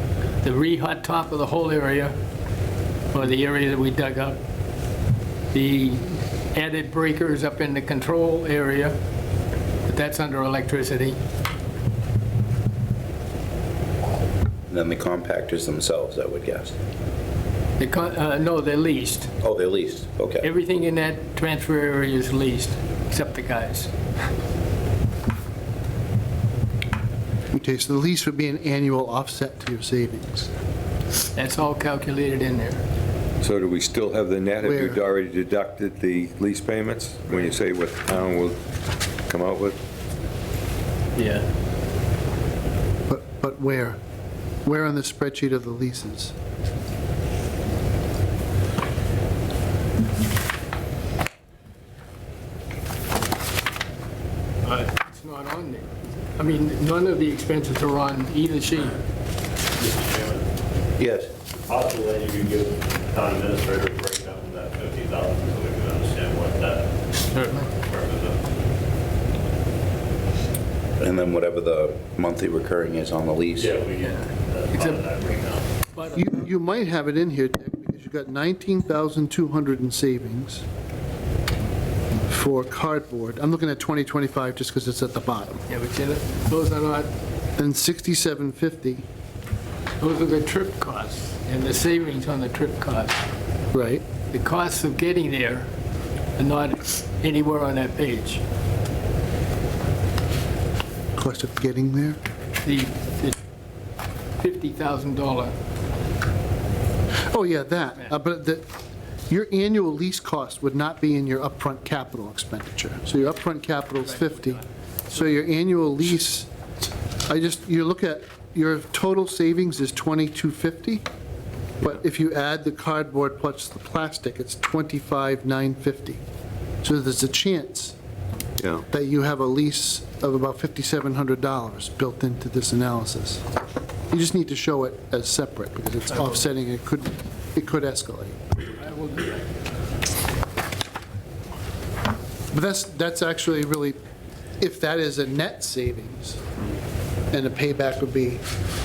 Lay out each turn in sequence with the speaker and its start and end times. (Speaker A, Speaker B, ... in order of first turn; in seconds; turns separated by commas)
Speaker A: 0.4-2.1, Speaker A: 3.1-4.4, Speaker A: 5.5-8.9, Speaker A: 9.8-11.2, Speaker B: 14.7-16.7, Speaker A: 17.8-19.3, Speaker B: 19.4-20.4, Speaker A: 20.4-23.9, Speaker C: 27.5-30.5, Speaker A: 31.3-32.8, Speaker D: 33.4-38.6, Speaker C: 34.6-35.0, Speaker D: 39.3-39.8, Speaker A: 41.1-41.4, Speaker C: 43.1-44.0, Speaker C: 44.6-46.3, Speaker A: 54.6-59.0, Speaker E: 59.7-60.5, Speaker B: 61.0-61.3, Speaker E: 61.7-67.0, Speaker A: 67.3-67.7, Speaker E: 67.8-68.6, Speaker B: 71.0-73.7, Speaker E: 73.6-75.7, Speaker A: 74.0-75.0, Speaker A: 75.9-76.3, Speaker C: 76.1-80.7, Speaker C: 82.3-85.6, Speaker A: 85.7-87.1, Speaker C: 87.6-89.0, Speaker A: 90.0-93.1, Speaker C: 93.7-94.0, Speaker A: 94.3-95.7, Speaker A: 96.4-98.4, Speaker C: 101.2-102.2, Speaker A: 102.6-103.4, Speaker A: 104.4-105.5, Speaker C: 107.3-108.7, Speaker C: 109.3-116.5, Speaker A: 114.2-114.6, Speaker C: 117.3-121.0, Speaker C: 121.8-126.2, Speaker C: 126.8-128.0, Speaker D: 128.6-128.8, Speaker C: 128.8-133.4, Speaker C: 134.1-138.4, Speaker A: 138.7-139.4, Speaker C: 142.5-144.0, Speaker C: 144.6-146.4, Speaker C: 147.3-148.4